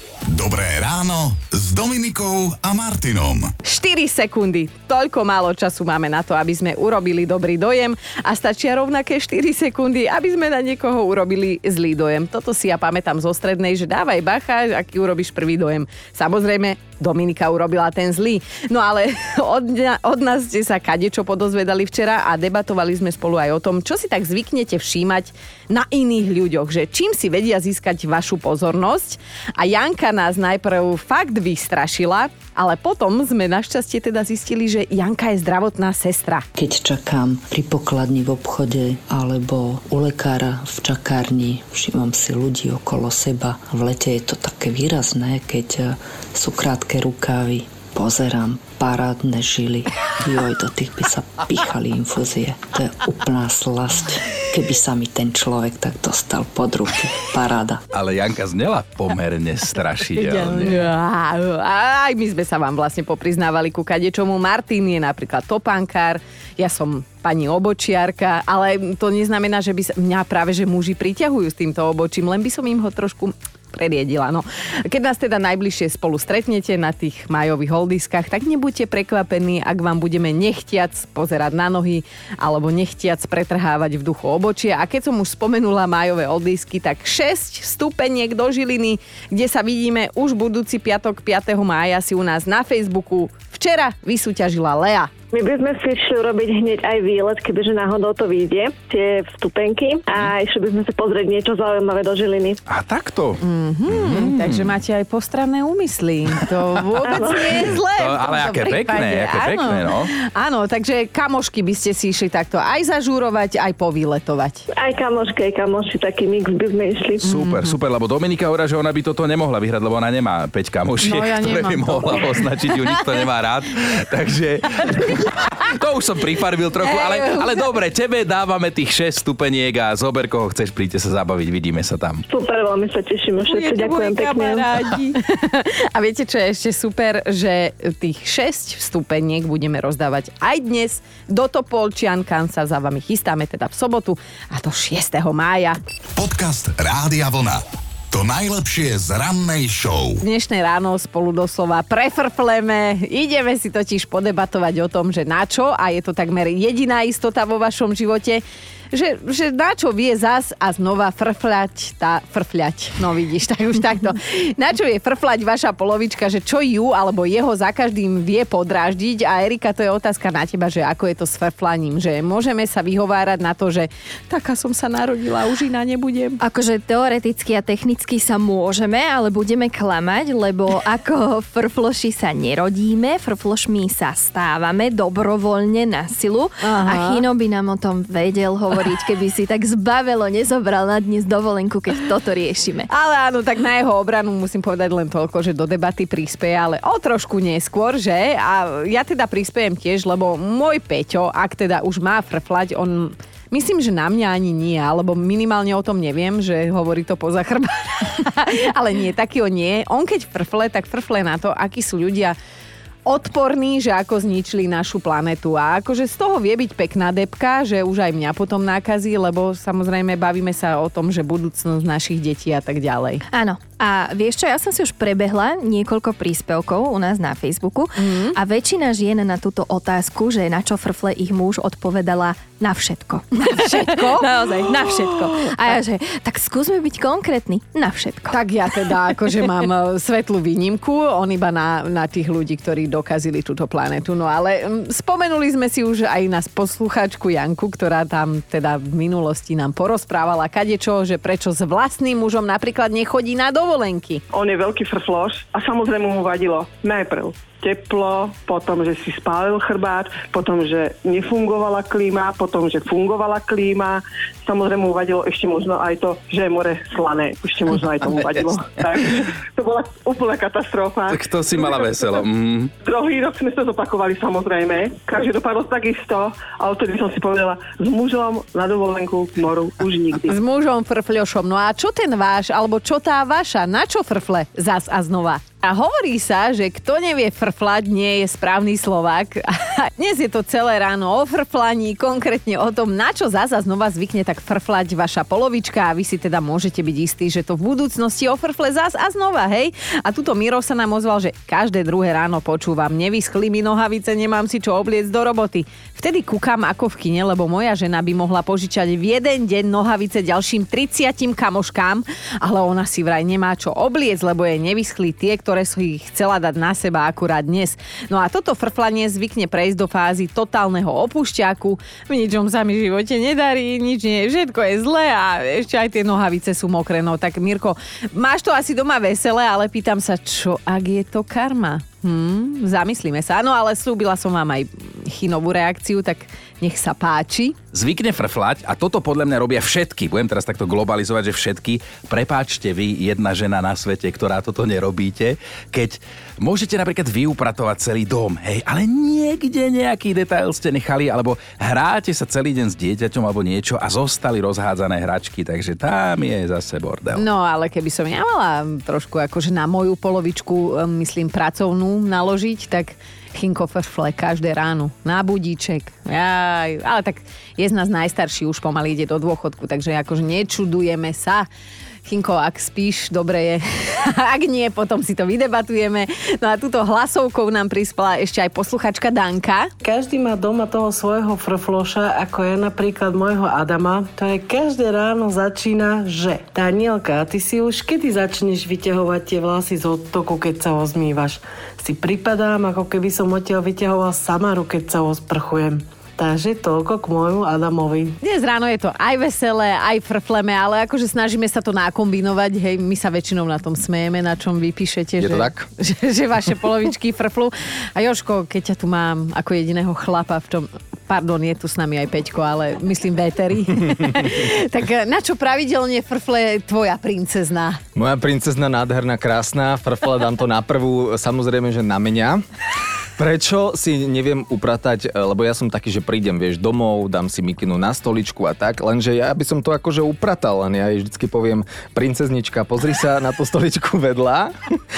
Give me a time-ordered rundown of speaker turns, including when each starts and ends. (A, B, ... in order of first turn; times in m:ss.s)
0:00.2-0:03.5 A
0:03.6-0:36.5 B
0:36.6-0:57.8 C
0:57.9-1:00.9 D
1:00.2-1:35.1 B
1:35.3-1:42.6 E
1:42.7-1:44.7 D
1:43.4-1:54.6 B
1:47.0-1:47.6 E
1:47.2-1:50.1 D
1:54.8-1:57.3 E
1:57.2-2:12.2 D
1:57.2-1:57.7 B
2:01.0-2:02.3 B
2:06.8-2:07.5 B
2:12.3-2:14.8 E
2:13.5-2:25.8 B
2:26.2-2:30.2 A
2:30.2-2:56.4 B
2:56.4-3:12.9 F
3:06.6-3:07.2 B
3:12.9-3:32.4 B
3:33.0-3:43.2 B
3:43.3-3:58.9 F
3:48.0-3:48.4 B
3:53.3-3:55.8 B
3:58.3-4:14.2 B
4:14.3-4:32.2 G
4:31.1-4:32.7 D
4:32.8-4:40.4 G
4:40.2-5:37.6 B
5:37.7-5:57.2 D
5:57.1-6:11.5 B
6:12.0-6:19.7 B
6:19.8-6:38.2 H
6:38.2-6:57.8 B
6:45.2-6:45.6 I
6:57.9-7:02.4 I
7:03.2-7:14.5 I